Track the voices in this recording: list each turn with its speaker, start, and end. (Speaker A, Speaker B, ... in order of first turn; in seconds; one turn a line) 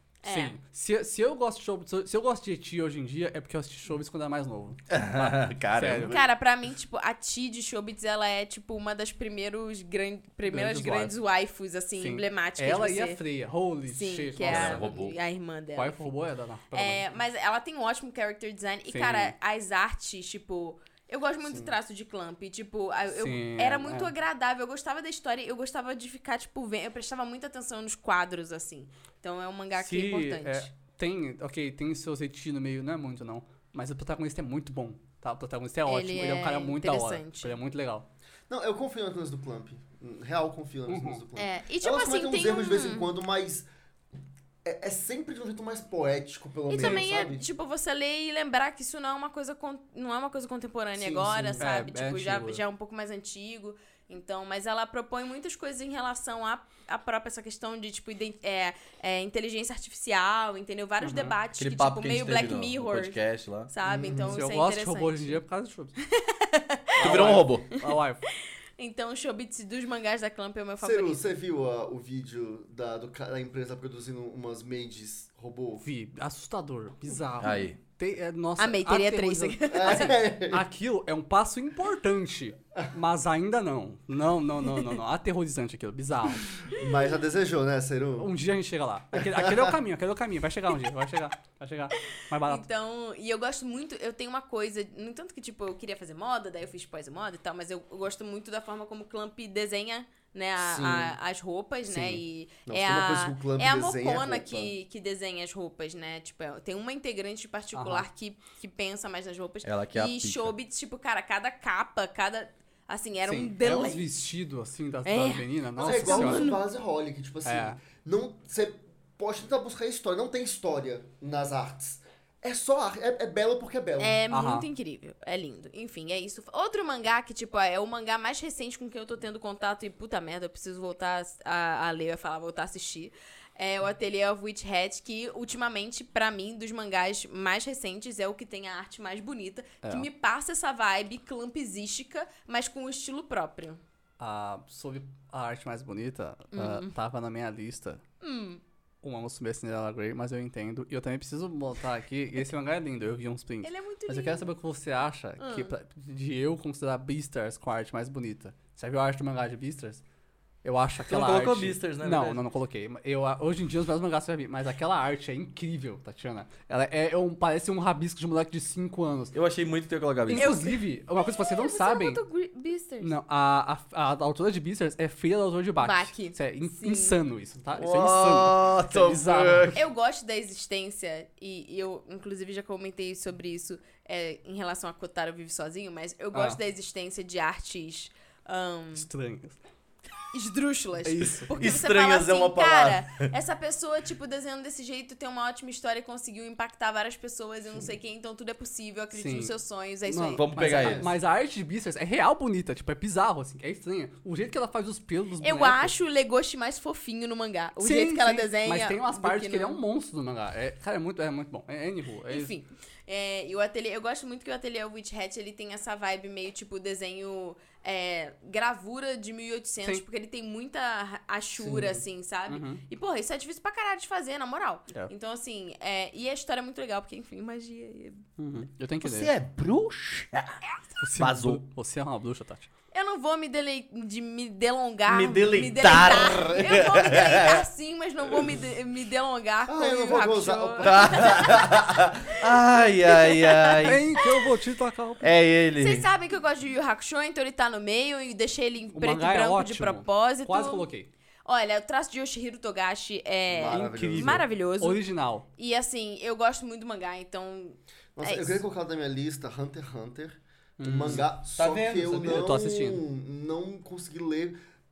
Speaker A: 0.2-0.6
Speaker B: 0.2-6.2
Speaker C: 4.9-6.2
Speaker A: 6.1-13.2
Speaker B: 10.5-11.2
Speaker B: 12.0-14.9
Speaker A: 13.9-16.1
Speaker C: 14.4-15.2
Speaker B: 15.8-17.1
Speaker A: 16.7-30.7
Speaker B: 18.9-19.3
Speaker D: 21.5-21.8
Speaker B: 23.1-24.1
Speaker B: 29.8-38.1
Speaker A: 35.9-37.6
Speaker D: 38.5-43.7
Speaker B: 40.9-41.2
Speaker A: 41.4-43.1
Speaker D: 44.6-47.4
Speaker A: 46.7-65.4
Speaker B: 46.8-47.1
Speaker D: 51.0-51.6
Speaker B: 51.3-52.6
Speaker B: 61.0-61.4
Speaker C: 61.6-63.7
Speaker D: 63.9-64.4
Speaker B: 64.3-66.0
Speaker A: 66.1-67.5
Speaker B: 67.0-68.2
Speaker C: 67.0-67.7
Speaker A: 68.8-71.2
Speaker D: 70.8-75.8
Speaker B: 75.8-86.5
Speaker C: 77.4-77.8
Speaker A: 78.6-80.2
Speaker D: 79.7-80.7
Speaker D: 86.8-88.3
Speaker B: 88.2-92.7
Speaker D: 89.2-89.7
Speaker A: 92.4-114.1
Speaker D: 100.6-101.2
Speaker D: 102.7-104.7
Speaker B: 107.7-108.1
Speaker C: 109.6-110.5
Speaker B: 113.2-116.5
Speaker A: 115.0-116.6
Speaker D: 115.8-124.2
Speaker B: 117.5-117.8
Speaker A: 124.0-143.8
Speaker B: 124.3-124.7
Speaker B: 139.8-140.1
Speaker B: 144.2-148.0
Speaker A: 146.5-146.9
Speaker A: 148.2-148.6
Speaker B: 149.0-160.0
Speaker A: 153.6-154.5
Speaker A: 155.4-155.7
Speaker B: 160.6-169.3
Speaker C: 161.1-162.4
Speaker C: 169.3-170.6
Speaker B: 170.3-172.2
Speaker A: 170.3-173.2
Speaker B: 173.0-179.8
Speaker A: 175.8-177.2
Speaker C: 177.8-179.8
Speaker A: 179.7-189.1
Speaker B: 186.3-186.6
Speaker B: 188.9-189.6
Speaker A: 190.3-201.0
Speaker B: 191.1-191.5
Speaker C: 191.4-193.3
Speaker B: 199.1-199.5
Speaker B: 200.1-205.9
Speaker C: 200.4-201.1
Speaker D: 200.7-201.1
Speaker A: 205.4-209.8
Speaker B: 207.8-212.5
Speaker A: 212.3-228.2
Speaker D: 221.6-221.9
Speaker B: 222.5-222.8
Speaker B: 228.4-229.3
Speaker C: 229.0-230.6
Speaker B: 231.0-232.7
Speaker C: 231.2-231.6
Speaker A: 232.9-242.4
Speaker C: 235.1-237.7
Speaker D: 239.7-241.7
Speaker C: 240.8-244.2
Speaker A: 243.1-244.4
Speaker B: 243.8-245.2
Speaker C: 245.2-246.1
Speaker A: 245.8-250.9
Speaker B: 248.9-251.1
Speaker A: 251.4-255.0
Speaker D: 253.5-254.4
Speaker B: 253.7-255.5
Speaker A: 255.6-258.6
Speaker D: 258.2-264.6
Speaker B: 260.8-261.3
Speaker C: 261.1-262.5
Speaker B: 262.3-263.0